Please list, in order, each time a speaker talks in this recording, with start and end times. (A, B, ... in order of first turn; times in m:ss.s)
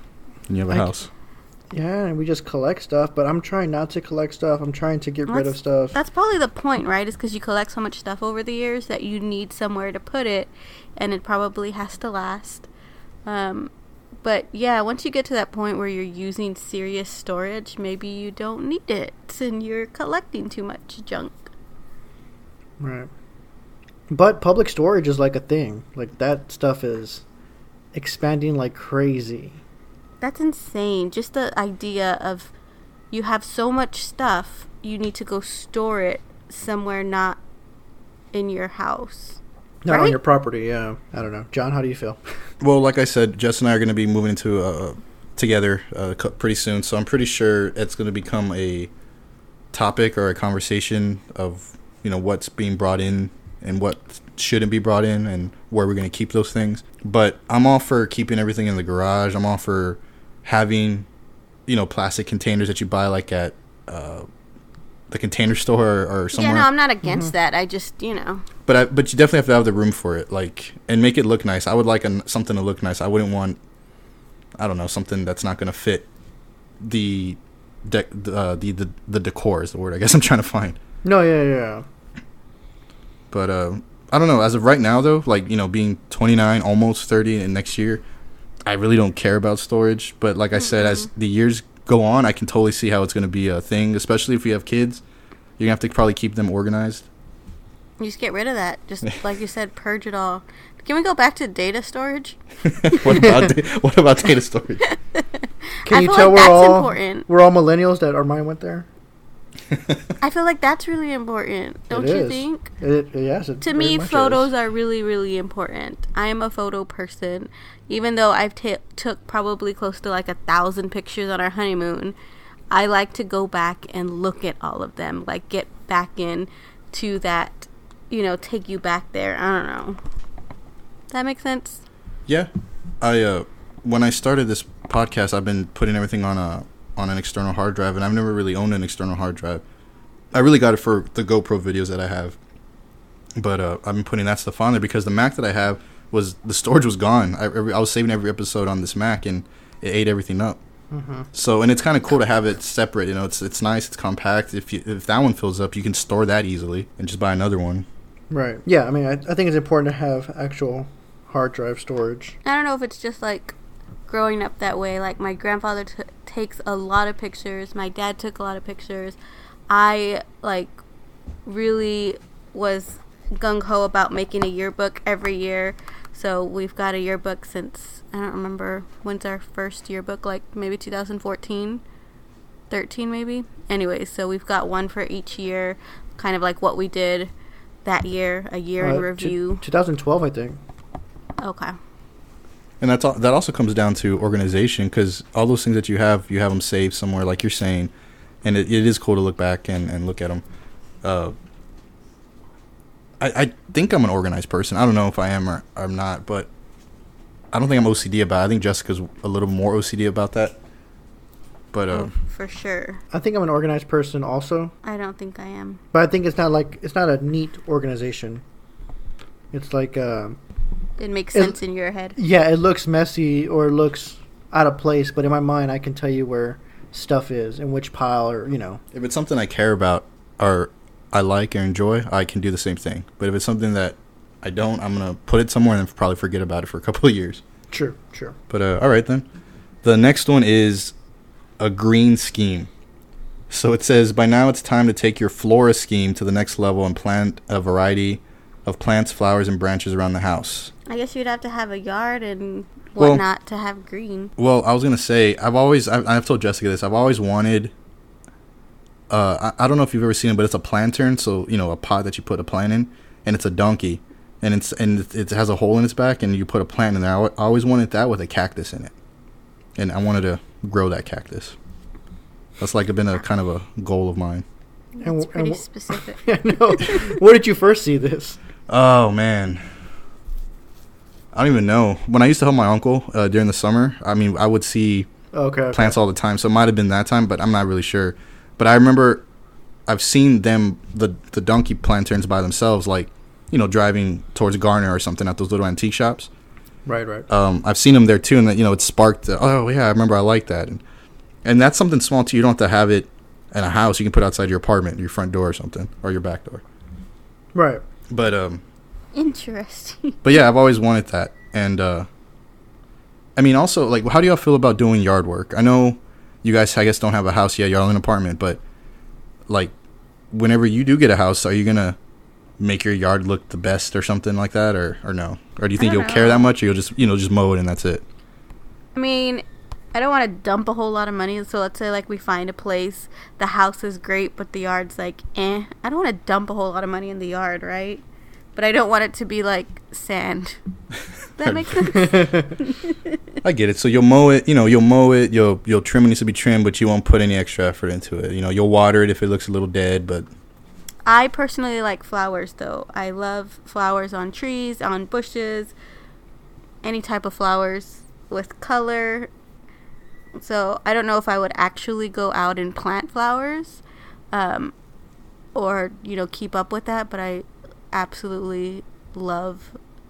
0:00.5-0:01.1 A
0:01.7-0:06.0 B
0:05.3-0:12.7 C
0:13.3-0:13.7 C
0:14.2-0:21.5 C
0:22.8-0:23.1 B
0:24.1-0:27.2 B
0:27.9-0:29.6 B
0:30.2-0:32.5 C
0:33.1-0:37.4 C
0:38.3-0:40.2 C
0:39.8-0:42.2 B
0:42.6-0:48.9 A
0:49.7-1:01.1 A
1:01.7-1:04.3 A
1:05.1-1:06.7 A
1:06.3-1:08.4 C
1:07.0-1:07.3 B
1:08.7-1:13.6 A
1:14.6-1:16.1 A
1:16.8-1:20.8 A
1:21.0-1:21.8 B
1:23.3-1:28.0 A
1:28.7-1:35.0 A
1:30.7-1:31.1 C
1:35.6-1:37.1 A
1:38.0-1:43.3 C
1:42.7-1:44.8 A
1:44.9-1:45.2 C
1:45.8-1:47.3 C
1:45.9-1:48.9 B
1:49.7-1:50.0 A
1:50.2-1:52.7 C
1:51.9-1:54.5 B
1:53.6-2:02.2 C
2:02.7-2:10.0 C
2:11.1-2:11.8 C
2:13.0-2:19.6 A
2:20.3-2:22.4 A
2:23.4-2:30.6 A
2:30.9-2:31.3 B
2:31.3-2:37.9 A
2:38.3-2:42.4 B
2:42.4-2:43.6 C
2:44.1-2:49.2 C
2:49.7-2:50.7 C
2:51.5-3:01.8 C
3:02.7-3:07.3 C
3:07.8-3:09.6 C
3:08.8-3:10.6 B
3:11.4-3:11.8 C
3:12.8-3:17.9 A
3:18.4-3:20.4 A
3:21.0-3:21.3 A
3:23.2-3:26.5 A
3:27.5-3:30.6 A
3:31.7-3:32.1 A
3:31.9-3:33.0 C
3:33.1-3:34.7 B
3:34.8-3:35.8 C
3:35.9-3:38.4 B
3:39.5-3:40.4 B
3:41.0-3:42.2 C
3:42.2-3:48.8 B
3:48.9-3:57.4 A
3:57.7-3:58.4 B
3:58.5-3:59.3 A
3:59.8-4:00.9 A
4:01.6-4:02.7 A
4:03.5-4:10.7 A
4:10.9-4:14.3 C
4:13.0-4:13.2 A
4:14.4-4:17.7 A
4:19.1-4:28.9 A
4:29.8-4:31.6 A
4:32.6-4:34.4 A
4:35.0-4:37.1 C
4:35.0-4:38.4 B
4:38.7-4:39.6 A
4:41.3-4:45.1 A
4:45.3-4:46.0 B
4:45.7-4:49.2 A
4:49.9-4:56.3 A
4:56.9-4:57.3 B
4:57.3-5:00.8 A
5:01.4-5:06.6 A
5:07.6-5:07.8 B
5:08.1-5:08.6 A
5:09.1-5:10.2 C
5:10.2-5:12.1 A
5:13.4-5:18.6 A
5:20.3-5:22.0 A
5:22.6-5:28.0 A
5:25.8-5:26.5 C
5:29.0-5:38.0 C
5:38.6-5:40.6 C
5:41.4-5:43.2 C
5:41.4-5:41.8 A
5:41.8-5:42.6 B
5:43.4-5:50.3 A
5:51.1-5:55.7 C
5:56.8-5:59.3 C
6:00.4-6:04.7 C
6:05.6-6:09.8 C